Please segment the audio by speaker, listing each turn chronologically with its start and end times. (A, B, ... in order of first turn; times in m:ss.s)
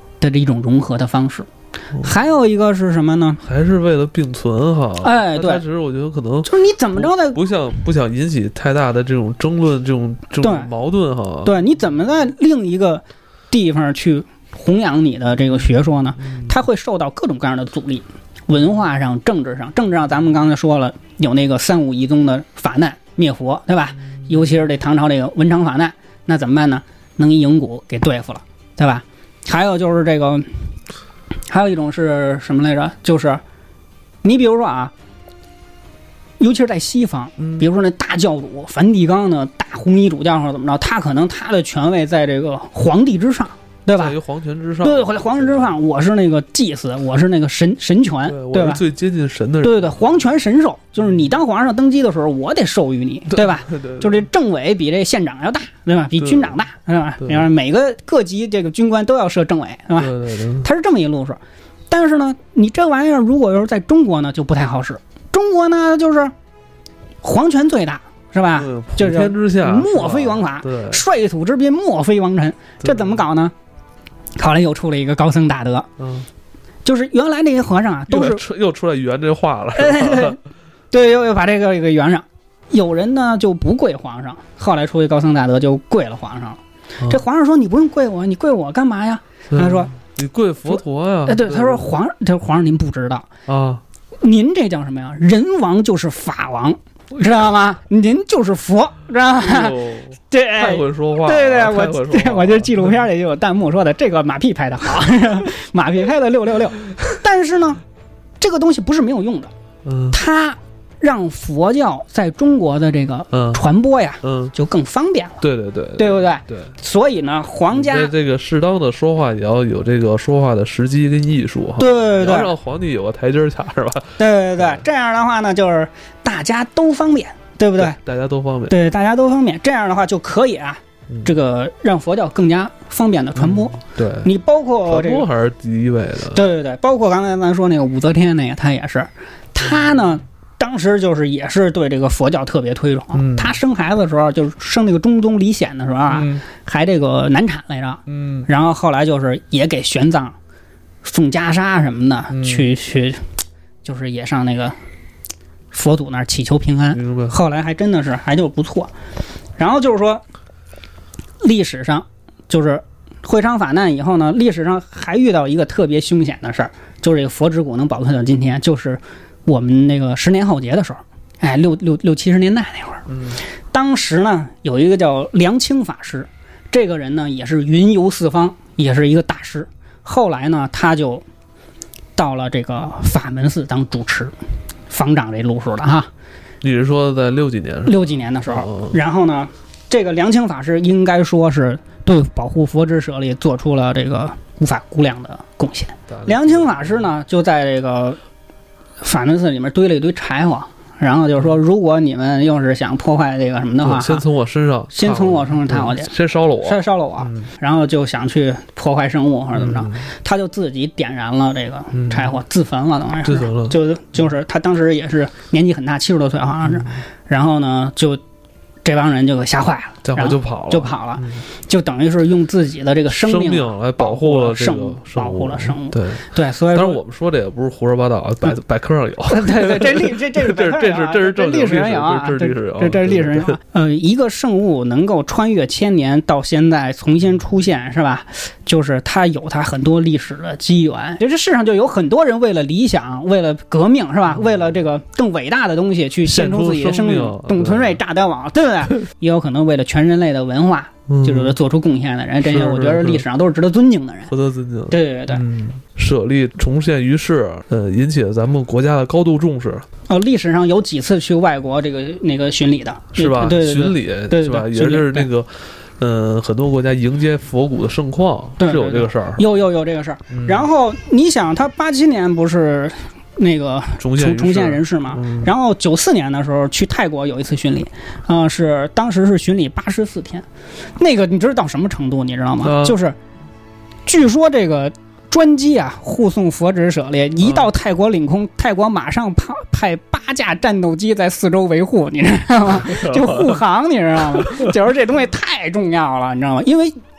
0:00.2-0:03.4 A
0:03.4-0:11.6 B
0:05.0-0:05.6 A
0:06.4-0:07.4 A
0:10.4-0:10.7 A
0:11.4-0:30.6 A
0:16.2-0:16.5 B
0:31.5-0:33.4 A
0:34.2-0:34.9 A
0:36.4-0:44.2 A
0:37.4-0:37.6 B
0:43.9-0:45.8 B
0:44.8-0:48.8 A
0:48.3-0:50.0 B
0:49.6-1:06.3 A
0:53.3-0:54.2 B
0:56.2-0:56.6 B
0:57.2-0:57.5 B
1:00.0-1:00.7 B
1:07.2-1:13.5 A
1:08.5-1:11.0 B
1:12.8-1:13.2 B
1:14.4-1:15.9 A
1:16.0-1:16.3 B
1:16.8-1:18.4 A
1:18.1-1:20.4 B
1:19.8-1:20.4 A
1:20.9-1:29.9 A
1:29.5-1:31.9 B
1:30.7-1:33.3 A
1:33.5-1:33.8 B
1:34.2-1:47.8 A
1:39.4-1:43.0 B
1:48.4-1:49.5 A
1:49.8-1:50.2 B
1:50.1-1:55.4 A
1:53.3-1:53.6 B
1:54.2-1:54.5 B
1:55.4-1:56.8 B
1:56.0-1:58.1 A
1:57.7-2:04.8 B
2:01.8-2:02.5 A
2:04.2-2:08.0 A
2:07.8-2:08.7 B
2:08.7-2:15.3 A
2:13.4-2:14.3 B
2:14.9-2:16.4 B
2:16.3-2:30.4 A
2:23.1-2:23.6 B
2:26.1-2:26.4 B
2:28.1-2:28.5 B
2:31.0-2:33.3 A
2:32.3-2:32.7 B
2:33.8-2:34.8 A
2:35.7-2:38.9 A
2:36.9-2:37.4 B
2:39.6-2:40.2 A
2:41.4-2:53.1 A
2:53.1-2:53.4 B
2:53.7-3:01.2 A
3:02.2-3:04.3 A
3:04.9-3:06.1 A
3:06.6-3:09.0 B
3:07.9-3:18.2 A
3:16.1-3:17.1 B
3:19.0-3:24.2 A
3:23.8-3:27.5 B
3:24.9-3:26.1 A
3:26.6-3:38.2 A
3:29.6-3:30.1 B
3:31.9-3:32.4 B
3:33.2-3:33.8 B
3:36.7-3:36.9 B
3:38.8-3:47.0 A
3:40.0-3:41.4 B
3:43.1-3:53.6 B
3:49.3-4:14.3 A
4:06.2-4:08.0 B
4:11.1-4:11.6 B
4:12.4-4:13.2 B
4:14.3-4:19.9 B
4:14.9-4:15.4 A
4:20.1-4:25.3 A
4:23.2-4:29.4 B
4:28.6-4:40.5 A
4:30.3-4:30.7 B
4:34.0-4:35.5 B
4:41.0-4:43.2 A
4:42.6-4:43.0 B
4:44.1-4:57.0 A
4:52.7-4:53.6 B
4:54.3-4:54.7 B